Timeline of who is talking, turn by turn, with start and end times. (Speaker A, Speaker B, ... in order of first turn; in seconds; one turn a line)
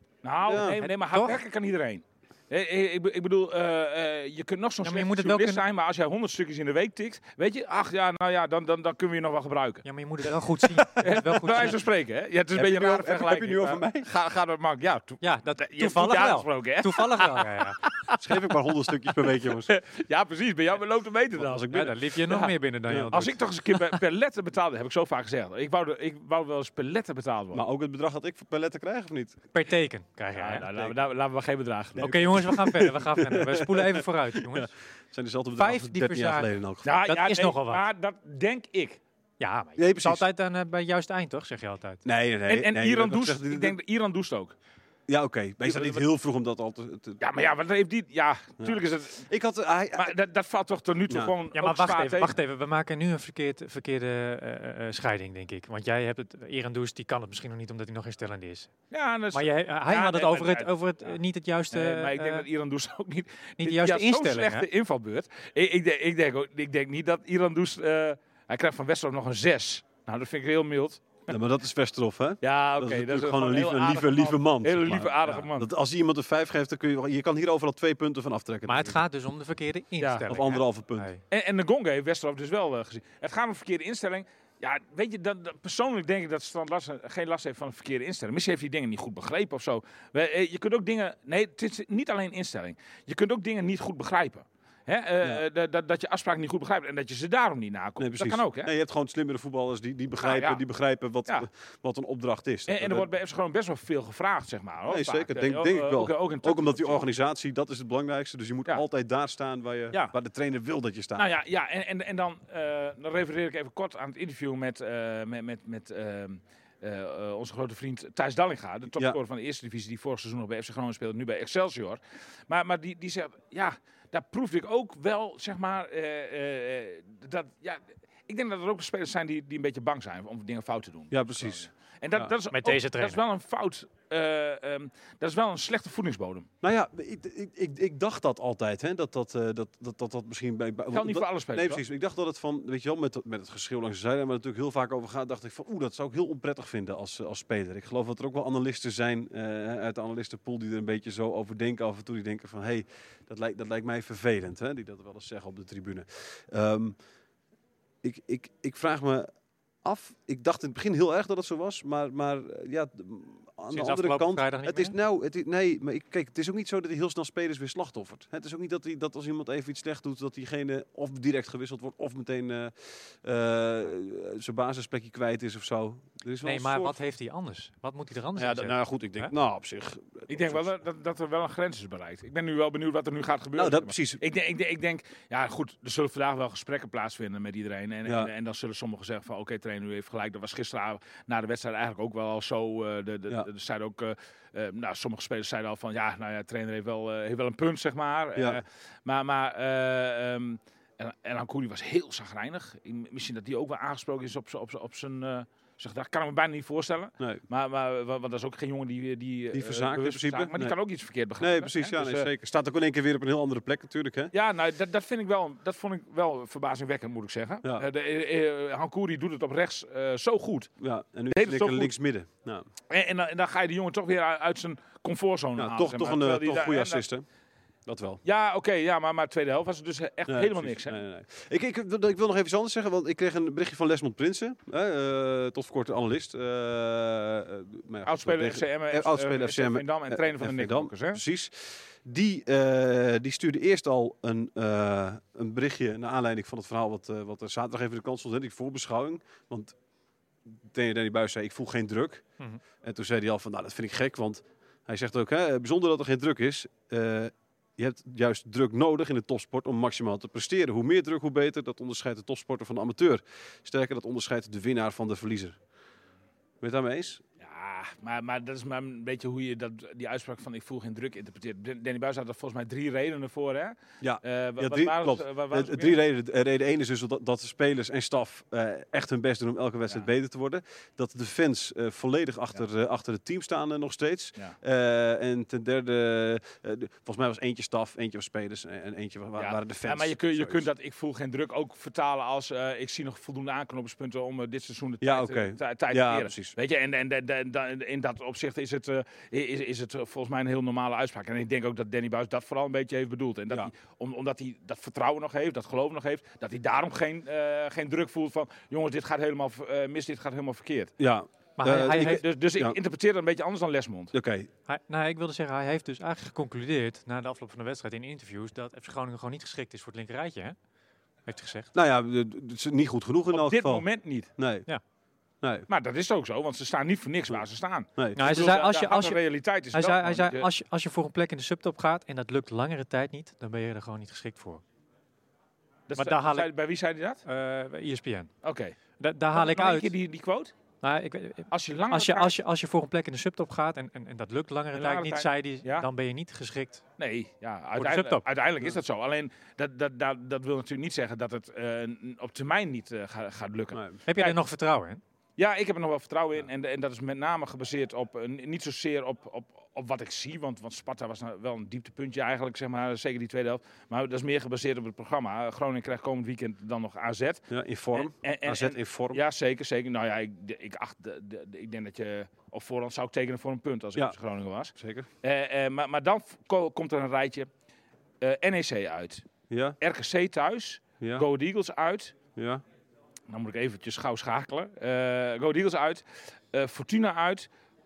Speaker A: 0.2-18.4
Speaker B: 0.5-0.8
Speaker C: 0.6-1.4
Speaker C: 4.8-5.6
Speaker C: 9.8-11.8
Speaker B: 12.6-14.1
Speaker C: 15.2-17.8
Speaker B: 18.2-19.7
Speaker A: 19.0-22.5
Speaker B: 21.4-21.9
Speaker C: 21.7-23.7
Speaker B: 22.9-23.2
Speaker A: 23.1-27.6
Speaker B: 27.5-29.4
Speaker C: 29.5-30.7
Speaker A: 30.4-32.1
Speaker B: 32.0-37.0
Speaker C: 32.0-34.7
Speaker C: 35.6-36.5
Speaker A: 36.8-39.0
Speaker C: 37.0-37.8
Speaker C: 39.4-42.0
Speaker B: 39.8-40.2
Speaker B: 42.0-43.8
Speaker A: 42.5-44.5
Speaker B: 45.1-47.2
Speaker A: 45.6-46.0
Speaker A: 47.2-49.3
Speaker B: 48.6-50.1
Speaker A: 50.0-52.4
Speaker B: 51.1-51.3
Speaker C: 51.5-58.7
Speaker A: 58.9-61.1
Speaker C: 59.3-62.5
Speaker A: 61.7-71.2
Speaker C: 63.6-64.7
Speaker B: 71.3-79.0
Speaker A: 72.4-75.7
Speaker C: 78.7-81.2
Speaker B: 80.3-81.1
Speaker A: 81.3-98.7
Speaker B: 98.0-103.1
Speaker A: 100.2-100.6
Speaker A: 102.7-107.1
Speaker B: 104.9-111.3
Speaker A: 111.2-136.5
Speaker B: 131.1-132.3
Speaker C: 132.5-133.2
Speaker B: 136.6-157.0
Speaker A: 140.9-141.8
Speaker B: 158.0-159.3
Speaker B: 159.8-177.0
Speaker C: 163.7-164.9
Speaker C: 176.4-179.3
Speaker B: 178.4-180.7
Speaker A: 180.3-212.3
Speaker B: 183.6-184.2
Speaker B: 188.1-188.3
Speaker B: 198.4-198.6
Speaker B: 209.5-210.8
Speaker B: 211.4-214.3
Speaker A: 214.3-220.7
Speaker B: 220.8-222.7
Speaker A: 221.3-221.9
Speaker A: 222.9-227.0
Speaker B: 225.6-227.2
Speaker B: 227.9-228.2
Speaker A: 228.2-231.0
Speaker B: 230.3-249.8
Speaker A: 238.1-241.2
Speaker B: 250.5-252.2
Speaker B: 252.8-265.6
Speaker B: 266.6-267.2
Speaker A: 267.4-276.0
Speaker B: 274.0-290.7
Speaker A: 289.4-310.9
Speaker B: 295.0-296.6
Speaker B: 311.0-312.8
Speaker C: 311.6-312.2
Speaker A: 311.8-314.1
Speaker B: 314.1-314.5
Speaker C: 314.7-320.6
Speaker C: 321.3-321.7
Speaker B: 321.7-323.9
Speaker A: 323.3-324.3
Speaker B: 324.4-324.7
Speaker B: 325.4-325.7
Speaker A: 325.7-330.5
Speaker C: 328.2-329.2
Speaker C: 329.7-334.6
Speaker A: 335.9-337.2
Speaker C: 336.0-336.5
Speaker C: 337.2-338.3
Speaker A: 338.4-338.8
Speaker C: 339.0-339.9
Speaker A: 339.3-340.5
Speaker C: 340.8-346.8
Speaker A: 341.5-342.3
Speaker A: 344.7-345.9
Speaker A: 347.0-354.4
Speaker C: 347.8-348.2
Speaker C: 354.1-355.0
Speaker A: 355.4-377.5
Speaker B: 367.5-369.2
Speaker B: 374.8-375.1
Speaker A: 378.2-379.2
Speaker B: 379.5-379.8
Speaker A: 379.8-382.2
Speaker B: 381.0-381.3
Speaker B: 382.4-382.6
Speaker A: 383.3-387.5